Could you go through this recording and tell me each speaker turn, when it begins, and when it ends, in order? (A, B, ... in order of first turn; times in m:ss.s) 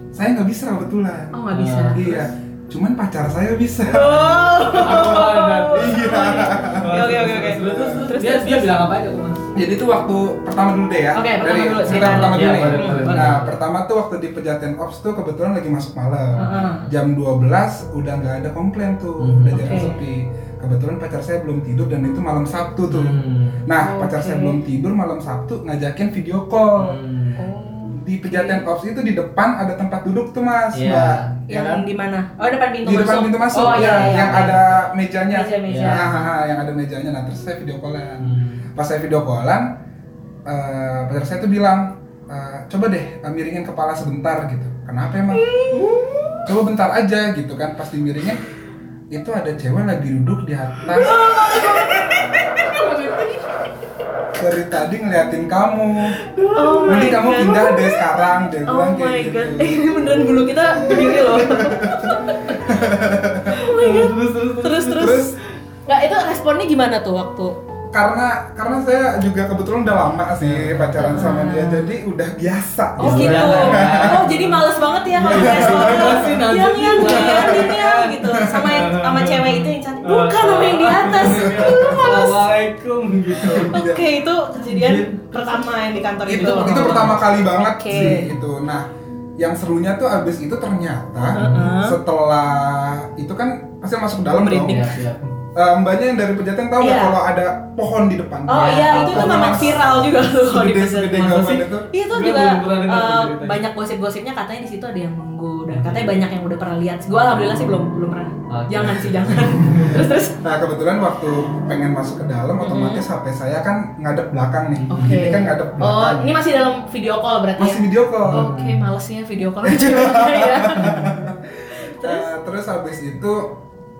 0:00.1-0:01.4 A
0:01.3-0:02.3 B
0:01.5-0:02.1 C
0:01.9-0:08.1 A
0:03.9-0:08.9 B
0:04.6-0:09.5 C
0:09.5-0:27.0 A
0:11.1-0:13.3 B
0:11.8-0:13.6 C
0:16.4-0:16.9 B
0:16.5-0:16.9 C
0:19.2-0:19.9 C
0:19.5-0:20.0 B
0:22.9-0:23.7 C
0:23.8-0:24.6 B
0:26.8-0:27.5 C
0:27.4-0:28.6 B
0:27.9-0:31.9 A
0:30.7-0:31.4 C
0:31.5-0:34.6 B
0:32.8-0:39.7 A
0:33.6-0:34.8 C
0:35.2-0:36.2 B
0:35.7-0:36.3 C
0:38.2-0:38.7 C
0:40.5-0:45.5 A
0:45.3-0:46.4 B
0:45.7-0:46.3 C
0:46.5-0:48.4 A
0:49.1-0:51.2 A
0:50.9-0:53.4 B
0:51.1-0:53.2 C
0:54.4-0:56.2 A
0:56.1-0:57.2 C
0:56.6-0:58.1 B
0:56.9-1:03.6 A
0:58.7-1:05.3 B
1:03.6-1:05.3 C
1:05.0-1:05.4 A
1:05.9-1:07.6 B
1:07.9-1:14.3 A
1:10.4-1:11.3 C
1:11.0-1:11.9 B
1:13.0-1:22.5 B
1:13.0-1:23.8 C
1:15.3-1:18.7 A
1:21.2-1:22.2 A
1:23.4-1:24.1 A
1:23.5-1:28.3 B
1:24.6-1:25.5 C
1:26.3-1:34.8 A
1:26.3-1:27.3 C
1:27.9-1:28.2 C
1:31.3-1:31.7 C
1:31.3-1:32.0 B
1:34.4-1:34.9 B
1:34.6-1:35.4 C
1:35.6-1:41.9 A
1:36.8-1:37.2 B
1:38.5-1:41.4 B
1:38.6-1:40.1 C
1:41.1-1:43.6 C
1:41.9-1:50.3 B
1:45.7-1:46.1 C
1:47.4-1:47.7 C
1:48.5-1:50.1 C
1:49.9-1:56.4 A
1:52.6-1:53.0 B
1:54.8-1:55.4 C
1:54.9-2:01.0 B
1:57.6-1:58.5 A
1:58.3-1:58.9 C
1:59.6-2:03.5 A
2:00.8-2:01.2 C
2:01.7-2:02.3 B